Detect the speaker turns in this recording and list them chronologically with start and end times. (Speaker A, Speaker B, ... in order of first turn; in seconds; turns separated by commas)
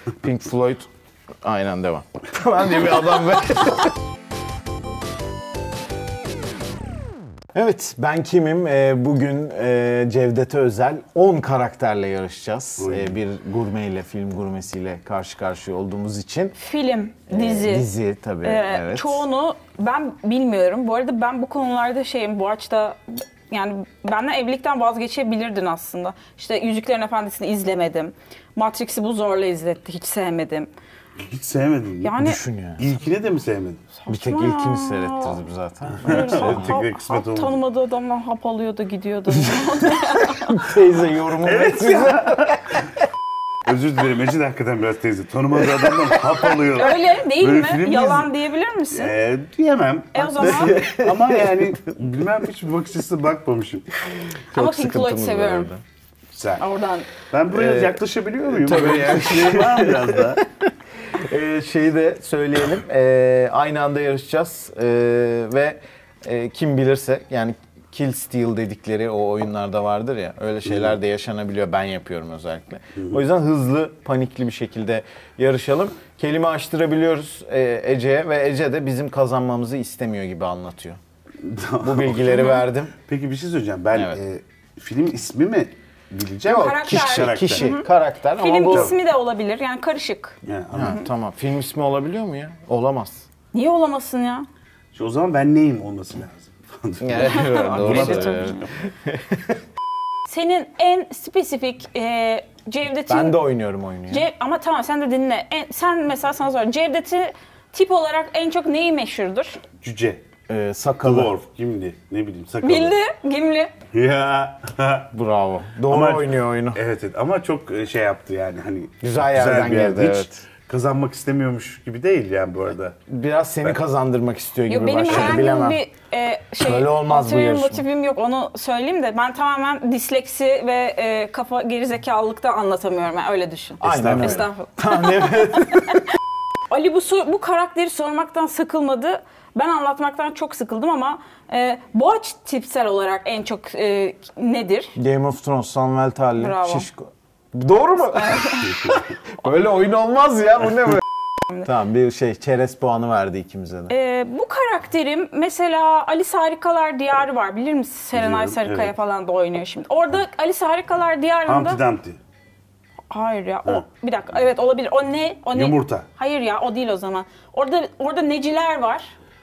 Speaker A: 0.2-0.9, Speaker A: 1.4-3.9, Speaker A: 7.5-16.6, Speaker B: 12.8-13.2, Speaker C: 16.6-17.9, Speaker A: 17.3-19.2, Speaker C: 18.4-30.7, Speaker B: 31.2-32.1, Speaker C: 32.0-32.4, Speaker A: 32.2-32.9, Speaker B: 32.8-33.8, Speaker C: 34.0-35.4, Speaker A: 34.1-36.8, Speaker B: 36.0-37.6, Speaker C: 36.0-40.7, Speaker A: 39.5-42.6, Speaker B: 41.4-42.8, Speaker B: 43.6-48.3, Speaker C: 46.7-49.1, Speaker B: 48.9-53.9, Speaker C: 50.1-50.9, Speaker A: 50.4-51.7, Speaker A: 54.5-55.8, Speaker C: 54.5-55.7, Speaker B: 56.3-56.6, Speaker C: 56.6-57.1, Speaker B: 57.3-60.4, Speaker A: 57.5-81.0, Speaker B: 70.7-70.9, Speaker B: 81.4-87.8, Speaker A: 81.8-82.9, Speaker A: 83.9-84.2, Speaker C: 86.5-91.0, Speaker A: 86.8-88.9, Speaker B: 88.7-88.9, Speaker B: 90.5-91.0, Speaker A: 90.7-93.2, Speaker C: 93.5-94.5, Speaker B: 94.9-98.7, Speaker A: 97.0-99.6, Speaker C: 97.2-98.7, Speaker C: 100.3-103.4, Speaker A: 103.1-104.3, Speaker C: 104.1-109.6, Speaker B: 109.8-110.2, Speaker A: 110.5-111.3, Speaker B: 111.0-113.0, Speaker C: 112.6-113.7, Speaker B: 113.9-115.1, Speaker A: 115.1-116.8, Speaker B: 115.9-123.0, Speaker A: 119.0-120.4, Speaker A: 123.1-125.8, Speaker C: 124.7-136.1, Speaker B: 125.1-125.4, Speaker A: 126.6-127.8, Speaker B: 133.8-134.5, Speaker A: 133.8-136.1, Speaker C: 136.7-144.9, Speaker A: 144.9-151.0, Speaker C: 146.3-146.8, Speaker C: 148.1-149.0, Speaker A: 151.6-153.9, Speaker C: 153.9-161.8, Speaker B: 158.1-158.9, Speaker B: 161.4-162.2, Speaker C: 163.1-169.1, Speaker B: 165.5-166.1